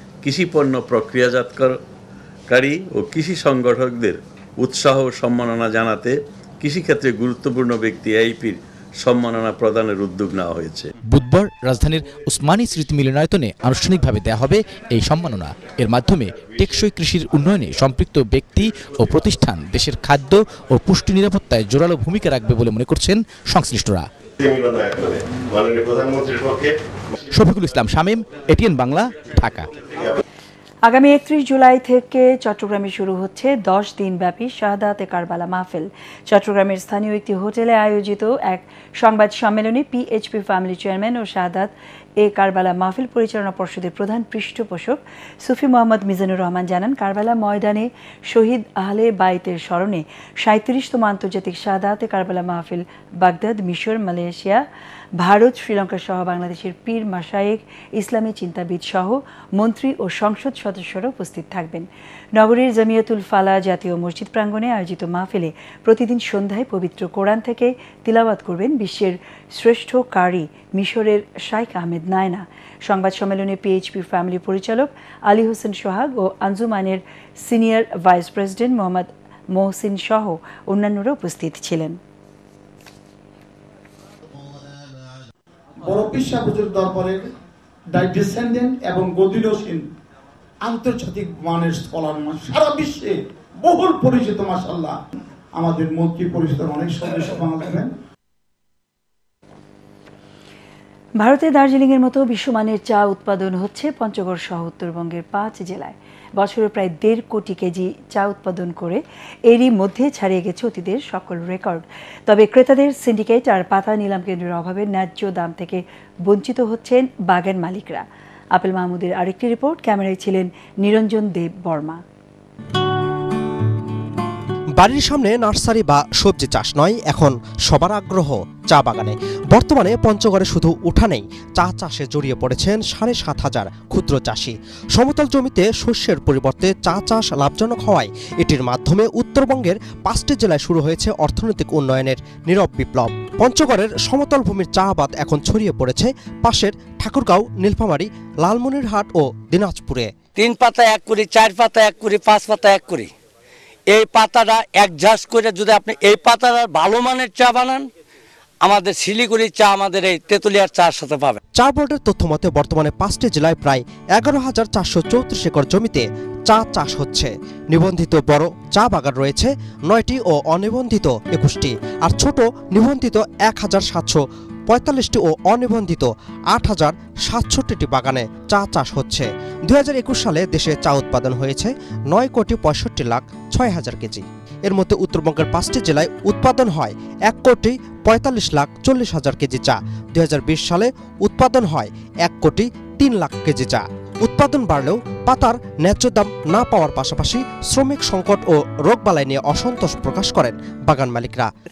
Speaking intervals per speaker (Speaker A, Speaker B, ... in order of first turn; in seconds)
Speaker A: 0.2-1.8, 2.5-10.9
Speaker B: 11.1-24.1, 27.3-29.7
Speaker C: 30.9-54.6, 55.2-82.0, 101.2-122.0
Speaker D: 85.8-87.3, 87.9-89.8, 90.7-95.0, 95.6-97.9
Speaker E: 124.8-150.1, 161.6-201.5
Speaker F: 150.4-153.1, 153.9-157.9, 158.6-161.4